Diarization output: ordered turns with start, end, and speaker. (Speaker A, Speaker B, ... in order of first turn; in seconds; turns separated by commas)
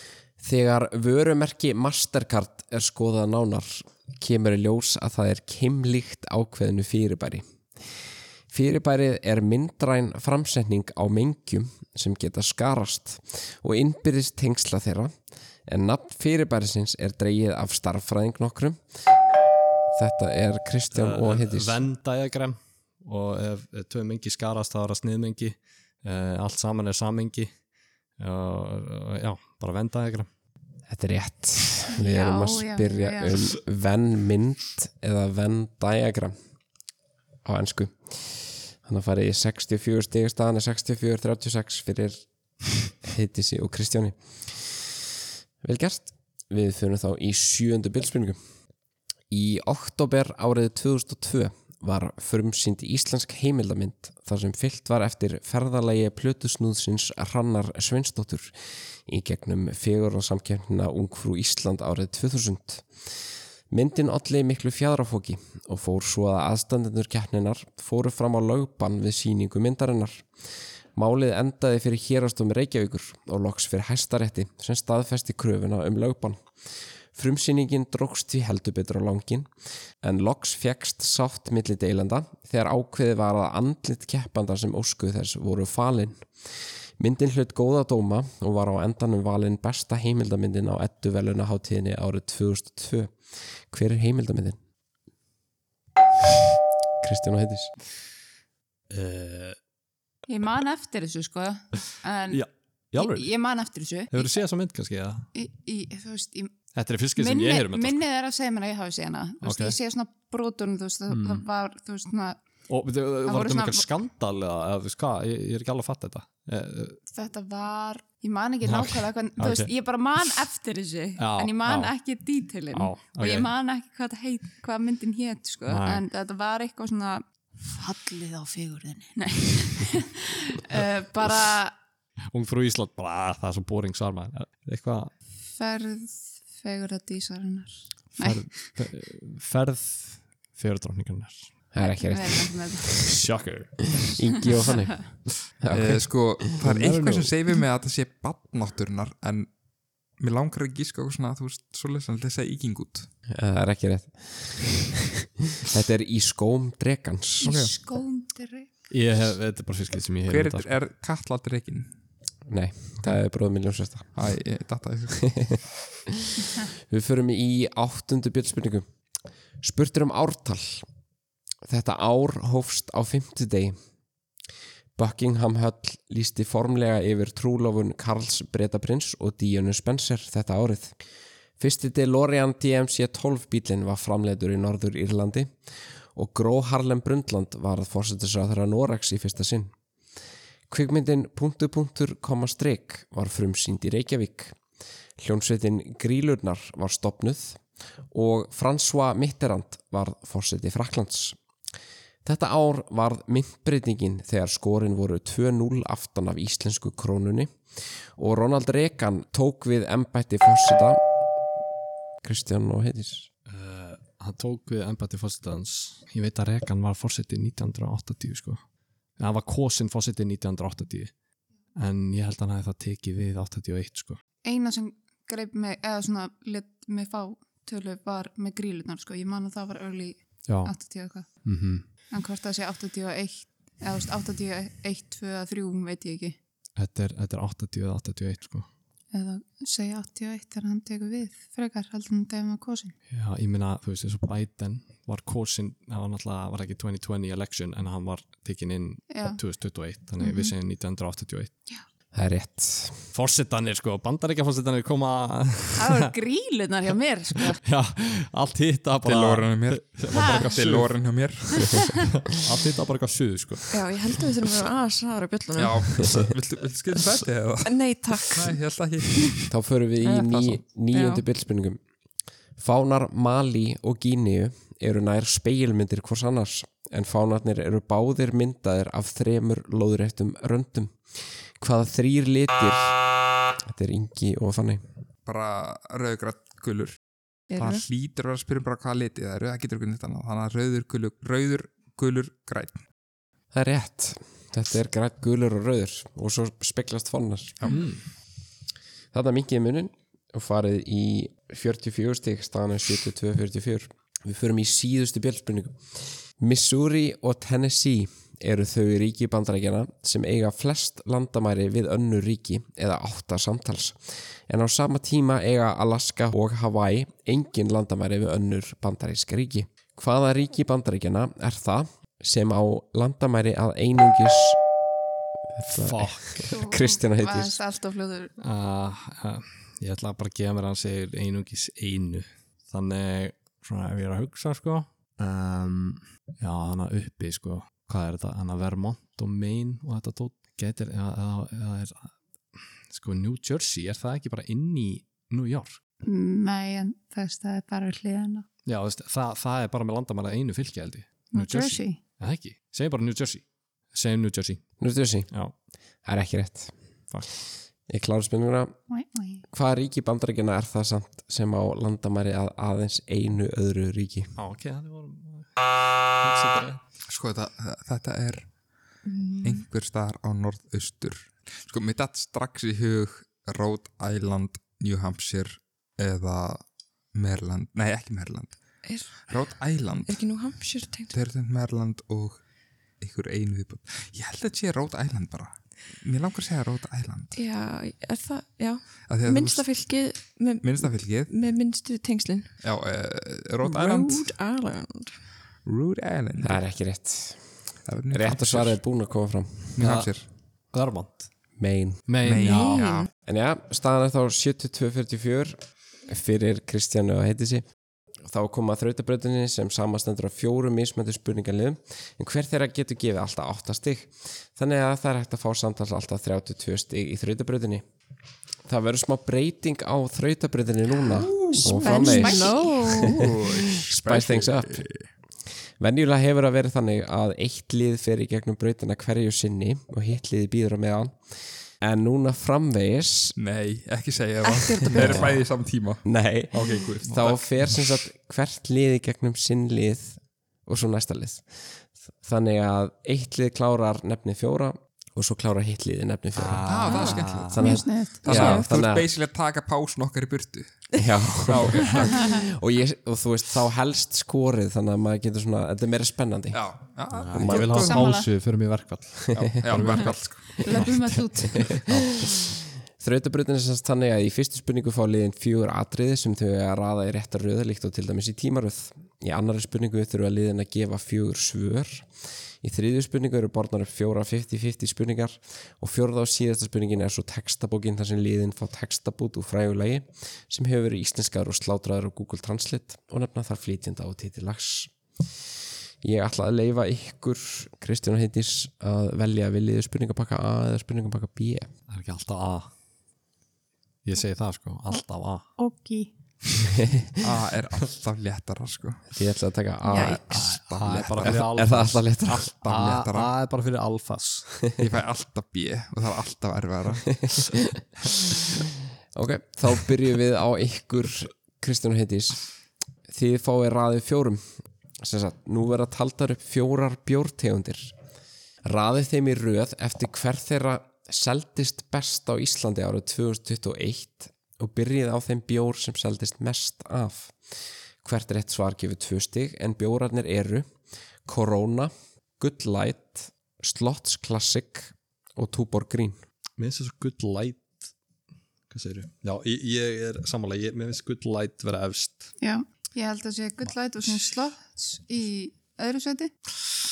Speaker A: 0.4-7.4, Speaker A: 8.5-15.1, Speaker A: 15.7-18.8, Speaker A: 19.9-21.8, Speaker B: 20.9-27.5, Speaker B: 28.2-30.3, Speaker A: 30.9-36.3, Speaker C: 31.9-33.4, Speaker A: 37.4-42.2, Speaker A: 42.8-45.1, Speaker A: 45.6-48.4, Speaker A: 49.3-63.1, Speaker A: 63.7-76.5, Speaker A: 77.1-79.5, Speaker A: 80.0-94.6, Speaker A: 97.0-97.7, Speaker B: 98.9-99.6, Speaker C: 100.3-102.4, Speaker B: 102.3-103.3, Speaker C: 103.0-104.3, Speaker B: 104.1-105.3, Speaker C: 105.3-106.5, Speaker B: 106.7-108.0, Speaker C: 107.2-112.4, Speaker B: 109.4-109.7, Speaker B: 111.1-111.4, Speaker B: 112.7-117.0, Speaker C: 113.2-113.9, Speaker C: 117.1-131.7, Speaker B: 118.6-119.7, Speaker B: 121.2-121.9, Speaker B: 122.7-123.5, Speaker B: 125.7-126.0, Speaker B: 132.3-135.1, Speaker C: 135.5-138.5, Speaker B: 138.2-141.5, Speaker A: 141.7-142.5, Speaker C: 141.8-143.0, Speaker B: 142.9-143.9, Speaker A: 144.0-146.7, Speaker D: 145.7-149.5, Speaker B: 146.6-147.3, Speaker D: 150.2-153.1, Speaker A: 153.3-154.9, Speaker A: 155.6-157.5, Speaker C: 157.4-158.7, Speaker D: 157.4-157.7, Speaker B: 158.9-160.7, Speaker D: 160.3-161.9, Speaker A: 162.5-164.1, Speaker D: 164.1-165.6, Speaker A: 166.3-168.8, Speaker A: 169.6-170.8, Speaker A: 171.6-173.7, Speaker A: 174.9-181.0, Speaker A: 181.6-189.7, Speaker A: 190.7-194.6, Speaker A: 195.2-201.4, Speaker A: 202.2-211.2, Speaker A: 212.2-213.3, Speaker B: 213.5-218.6, Speaker B: 219.2-221.1, Speaker B: 221.8-224.2, Speaker C: 224.4-231.3, Speaker B: 230.5-230.7, Speaker B: 231.4-231.8, Speaker C: 232.1-236.4, Speaker B: 236.8-238.7, Speaker C: 239.1-242.9, Speaker B: 243.1-251.5, Speaker C: 249.1-249.4, Speaker C: 250.2-250.5, Speaker A: 252.1-253.0, Speaker B: 253.1-256.1, Speaker C: 255.8-257.6, Speaker B: 257.6-260.9, Speaker D: 259.0-261.9, Speaker C: 260.1-260.4, Speaker B: 262.3-263.8, Speaker E: 263.7-266.2, Speaker D: 265.6-269.5, Speaker E: 267.6-268.5, Speaker A: 269.5-271.8, Speaker E: 270.0-270.4, Speaker E: 270.9-271.2, Speaker A: 272.6-283.0, Speaker A: 283.6-284.8, Speaker D: 285.2-287.0, Speaker E: 287.5-287.8, Speaker D: 287.6-292.8, Speaker A: 293.5-297.6, Speaker B: 297.7-298.0, Speaker A: 299.1-324.6, Speaker A: 325.6-327.6, Speaker B: 325.6-326.4, Speaker C: 326.5-328.3, Speaker B: 328.4-345.8, Speaker C: 346.0-348.4, Speaker B: 348.6-354.7, Speaker C: 351.3-352.0, Speaker A: 354.8-355.3, Speaker A: 356.0-356.7, Speaker A: 357.9-358.8, Speaker C: 358.9-359.4, Speaker A: 359.5-364.3, Speaker B: 364.4-366.8, Speaker D: 367.1-368.5, Speaker E: 369.0-369.6, Speaker D: 369.4-382.4, Speaker E: 378.8-379.5, Speaker E: 380.1-381.1, Speaker D: 383.0-387.3, Speaker E: 387.3-392.5, Speaker D: 389.1-389.8, Speaker D: 390.6-391.3, Speaker D: 392.6-394.3, Speaker E: 393.6-395.2, Speaker D: 395.6-396.6, Speaker A: 396.4-399.8, Speaker D: 397.9-398.8, Speaker D: 399.7-400.2, Speaker B: 399.8-400.1, Speaker B: 400.7-401.3, Speaker A: 401.6-402.0, Speaker B: 402.1-402.9, Speaker D: 402.2-403.1, Speaker E: 402.4-403.1, Speaker A: 403.2-407.7, Speaker A: 408.2-417.8, Speaker A: 418.6-424.9, Speaker D: 421.2-421.6, Speaker E: 421.6-423.2, Speaker C: 421.6-423.1, Speaker D: 423.0-425.1, Speaker A: 425.8-433.4, Speaker D: 433.4-437.5, Speaker E: 434.4-435.3, Speaker A: 434.9-435.4, Speaker B: 435.0-435.3, Speaker A: 436.0-449.1, Speaker B: 436.6-437.3, Speaker B: 446.4-447.6, Speaker D: 446.6-447.6, Speaker E: 446.9-448.7, Speaker C: 447.6-448.2, Speaker D: 448.2-450.9, Speaker A: 451.0-456.7, Speaker D: 451.4-452.4, Speaker D: 456.5-458.1, Speaker B: 457.1-462.4, Speaker A: 457.3-457.8, Speaker C: 457.8-458.3, Speaker A: 459.4-459.9, Speaker D: 459.6-460.4, Speaker C: 460.6-461.8, Speaker A: 462.9-484.9, Speaker A: 486.0-491.7, Speaker B: 491.9-492.7, Speaker B: 494.0-495.5, Speaker C: 495.6-496.1, Speaker D: 497.2-499.2, Speaker A: 499.1-500.5, Speaker E: 499.9-500.4, Speaker D: 500.0-501.5, Speaker B: 500.3-504.6, Speaker A: 501.2-502.5, Speaker D: 502.5-503.3, Speaker D: 504.8-507.4, Speaker A: 509.1-512.5, Speaker A: 513.1-517.9, Speaker A: 518.6-530.7, Speaker A: 531.2-536.2, Speaker B: 536.6-537.9, Speaker B: 538.7-542.3, Speaker C: 542.4-546.3